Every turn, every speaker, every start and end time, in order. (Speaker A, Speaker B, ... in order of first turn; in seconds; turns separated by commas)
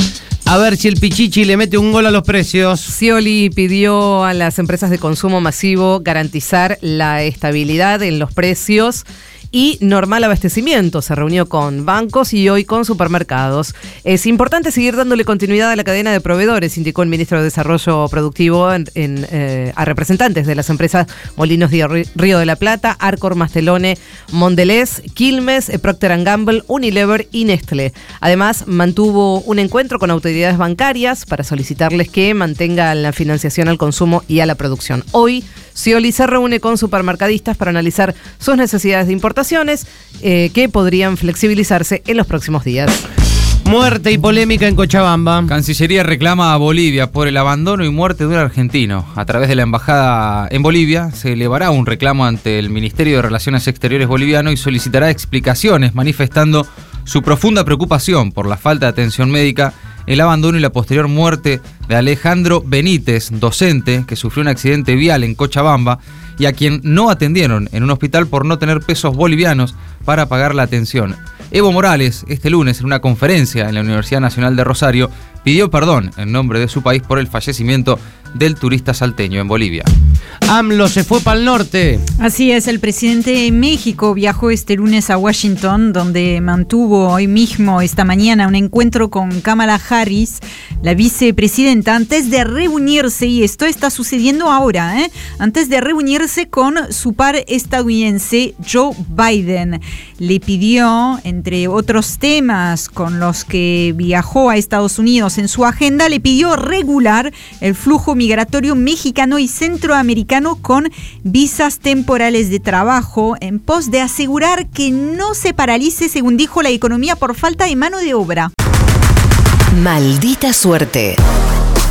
Speaker A: 0.5-2.9, Speaker B: 2.9-43.0, Speaker A: 43.6-45.5, Speaker C: 45.5-79.9, Speaker A: 80.5-82.0, Speaker D: 82.2-118.5, Speaker B: 119.7-121.2